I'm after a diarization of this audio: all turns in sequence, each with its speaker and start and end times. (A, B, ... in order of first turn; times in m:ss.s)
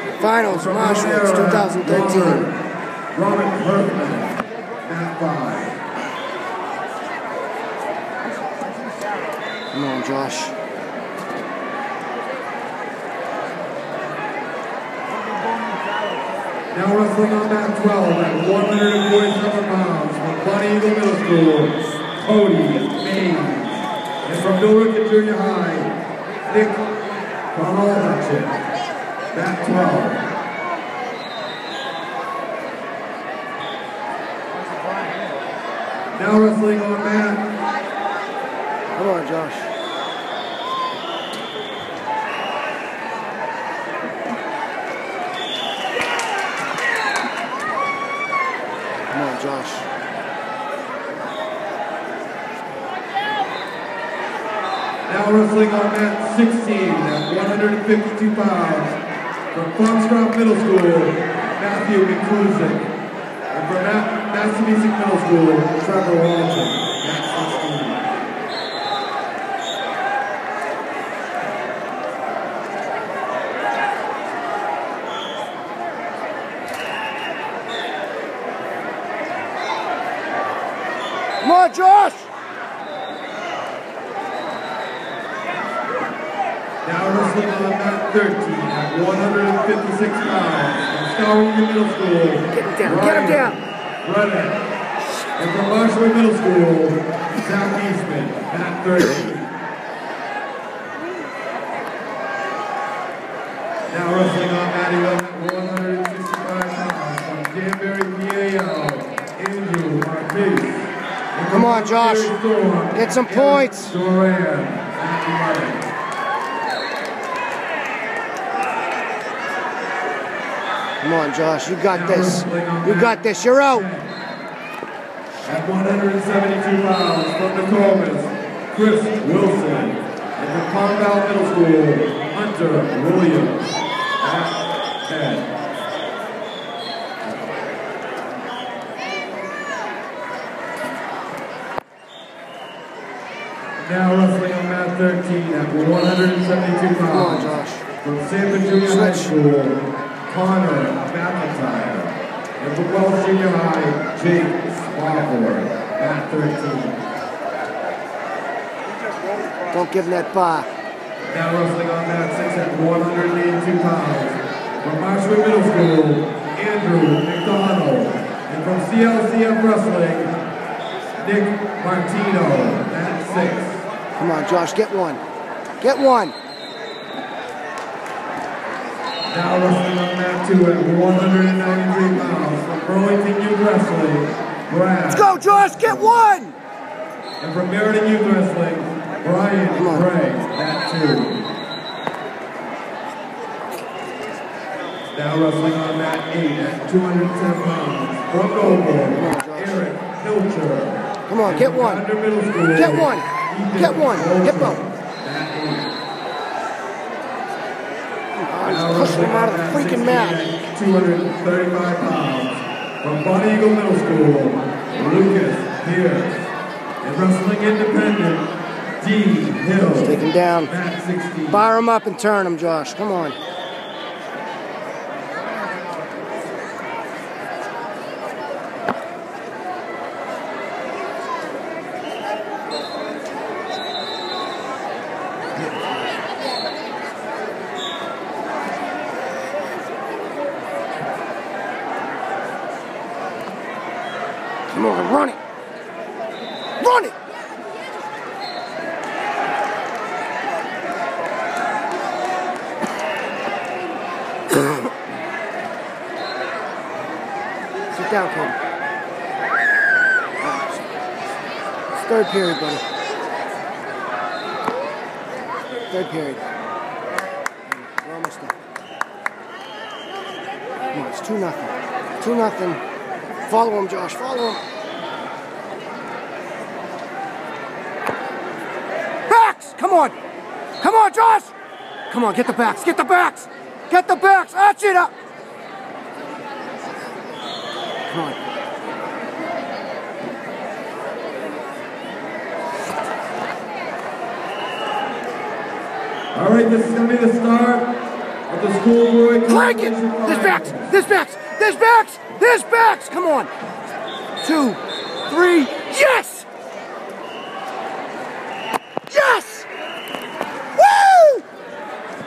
0:00.2-0:02.5 A
0:00.5-0:02.5 B
0:03.1-0:05.8 B
0:09.7-0:10.5 A
0:16.7-0:25.9 B
0:26.4-0:28.6 B
0:29.3-0:30.2 B
0:36.1-0:37.5 B
0:38.9-0:39.7 A
0:49.1-0:49.9 A
0:55.1-0:59.0 B
0:59.5-1:02.9 B
1:03.5-1:08.2 B
1:21.4-1:22.3 A
1:26.8-1:34.6 B
1:32.5-1:33.6 A
1:35.4-1:39.5 B
1:43.9-1:55.9 B
1:51.5-1:52.3 A
1:52.9-1:53.9 A
2:01.0-2:03.9 A
2:01.9-2:04.1 B
2:05.4-2:13.6 B
2:14.2-2:15.6 B
2:23.8-2:27.5 B
2:27.1-2:27.8 A
2:28.0-2:37.0 B
2:28.8-2:29.3 A
2:39.7-2:40.7 A
2:41.3-2:50.3 B
2:51.2-2:53.8 B
2:54.2-2:55.2 A
2:55.8-2:56.3 A
2:59.3-3:06.2 B
3:05.1-3:06.6 A
3:07.4-3:11.4 B
3:09.7-3:10.1 A
3:15.1-3:25.9 B
3:19.1-3:19.8 A
3:21.3-3:22.0 A
3:22.7-3:24.8 A
3:28.4-3:30.4 A
3:28.6-3:36.4 B
3:37.0-3:41.7 B
3:39.9-3:40.7 A
3:41.5-3:43.4 A
4:04.7-4:05.4 A
4:06.8-4:07.1 A
4:17.9-4:18.6 A
4:20.4-4:20.9 A
4:21.9-4:22.8 A
4:25.9-4:26.4 A
4:27.7-4:28.5 A
4:30.9-4:32.8 A
4:33.5-4:34.6 A
4:39.3-4:40.2 A
4:40.8-4:41.5 A
4:42.1-4:45.1 A
4:48.1-4:48.4 A
4:56.3-5:01.0 B
4:59.5-5:03.5 A
5:04.4-5:06.5 A
5:09.1-5:09.7 A
5:10.8-5:11.4 A